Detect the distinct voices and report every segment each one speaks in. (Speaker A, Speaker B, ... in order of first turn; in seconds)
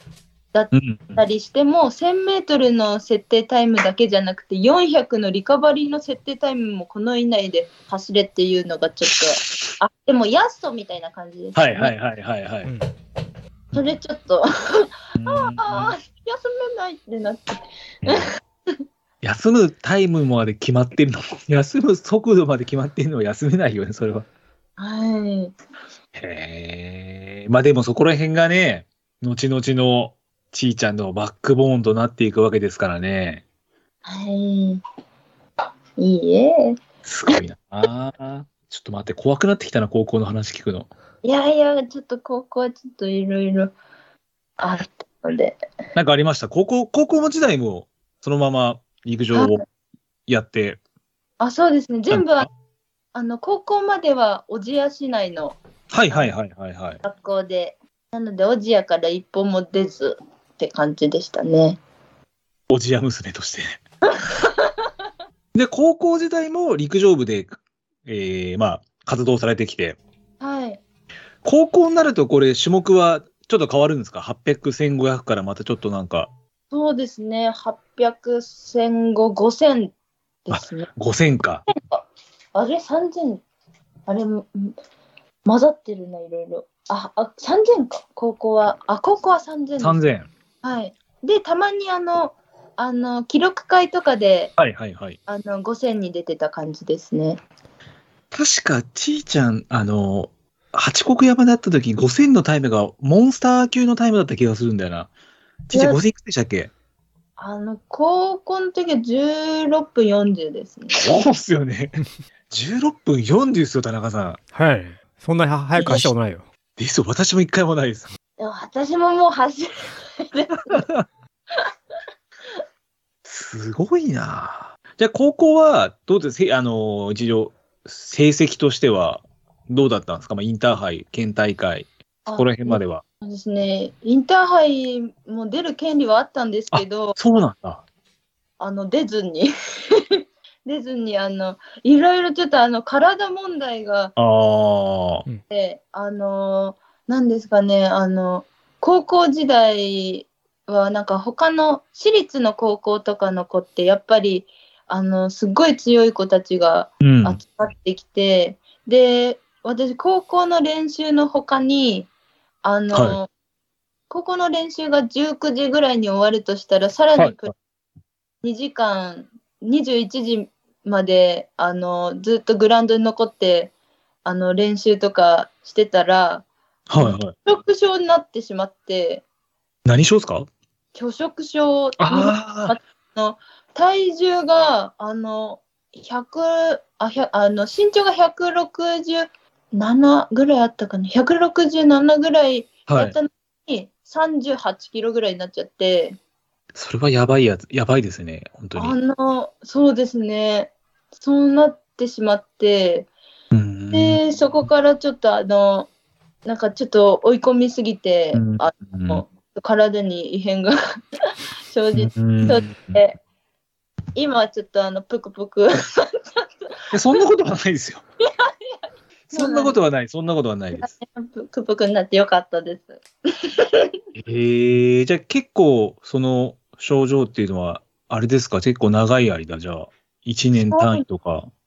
Speaker A: 0.5-11.9, 13.7-18.3, 24.8-25.5, 34.0-34.8, 36.0-36.8, 41.2-43.7, 44.6-45.6, 49.3-49.6, 51.4-52.5, 53.1-55.6, 57.0-61.8, 64.2-64.7, 70.4-70.8, 76.7-79.9, 80.5-80.9, 81.7-83.4, 84.1-84.8, 85.4-90.0, 90.6-94.5, 95.3-97.4, 105.7-106.0, 107.4-111.1, 118.4-120.9, 132.2-137.2, 138.6-140.0, 140.6-144.1, 145.5-162.1, 162.6-163.3, 164.1-167.5, 168.4-173.7, 174.2-179.2, 180.9-196.2, 198.7-203.1, 203.9-205.9, 206.4-210.7, 211.7-213.2, 214.2-216.4, 218.4-218.8, 219.3-219.8, 220.7-223.0, 223.6-223.9, 230.7-231.0
Speaker B: 0.7-1.2, 11.5-12.7, 15.2-15.9, 18.0-18.3, 19.2-24.3, 26.1-33.4, 37.0-40.9, 45.9-49.6, 50.3-50.8, 52.1-52.5, 55.9-57.0, 62.7-63.8, 65.5-70.0, 71.4-76.3, 80.5-81.6, 89.8-90.3, 94.6-95.2, 98.3-105.1, 105.7-106.7, 110.9-114.4, 115.8-116.1, 116.8-118.1, 120.7-121.0, 123.2-133.0, 136.7-137.8, 144.2-145.2, 157.0-157.4, 162.9-163.2, 167.2-167.5, 176.9-177.3, 179.8-180.5, 182.0-182.8, 192.9-193.1, 196.7-199.0, 203.5-204.2, 208.3-209.2, 211.9-213.0, 216.9-218.0, 219.3-220.9, 224.1-231.5
Speaker C: 114.5-116.5